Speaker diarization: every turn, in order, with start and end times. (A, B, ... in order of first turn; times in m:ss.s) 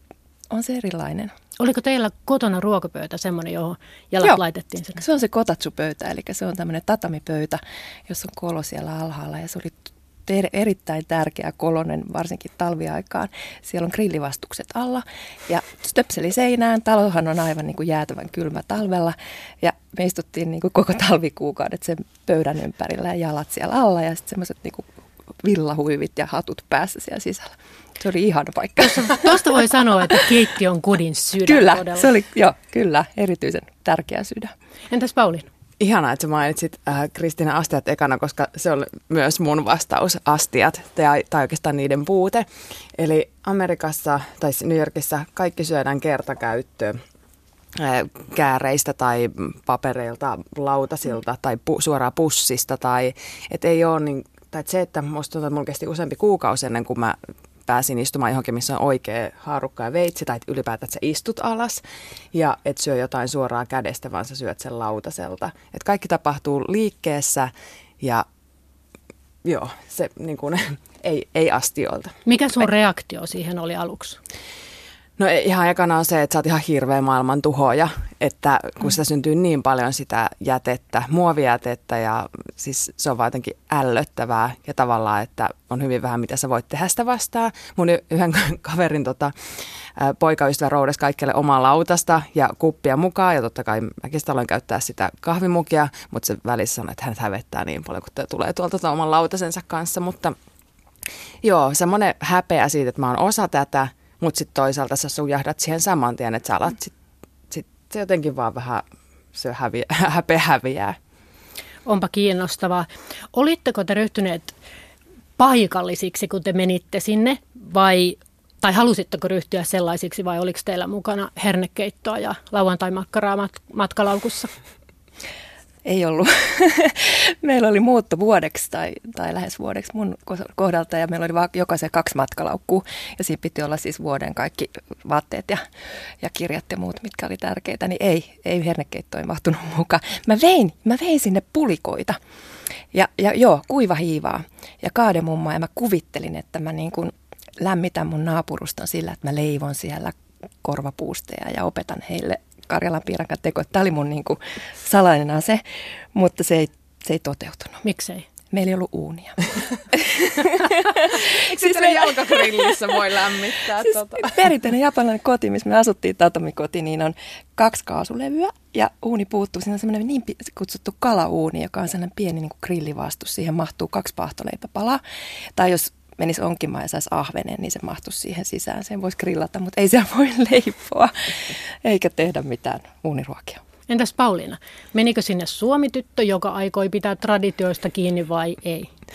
0:00.5-0:01.3 A
0:01.6-0:05.0 B
0:05.0-0:24.9 A
0:25.4-0:29.4 A
0:28.8-0:32.1 B
0:31.4-0:34.5 A
0:34.9-0:35.5 B
0:35.8-0:47.0 C
0:47.8-1:01.8 C
1:02.3-1:08.2 C
1:09.4-1:12.2 C
1:12.3-1:14.2 B
1:15.2-1:29.3 C
1:30.0-1:40.4 C
1:41.4-1:46.9 C
1:47.5-1:51.0 C
1:51.9-1:54.6 B
1:55.4-2:04.5 B
2:05.8-2:15.6 A
2:16.2-2:22.2 A
2:22.9-2:37.8 A
2:37.8-2:38.3 B
2:38.5-2:55.0 A
2:41.1-2:44.5 C
2:55.6-3:03.6 A
3:03.9-3:08.9 B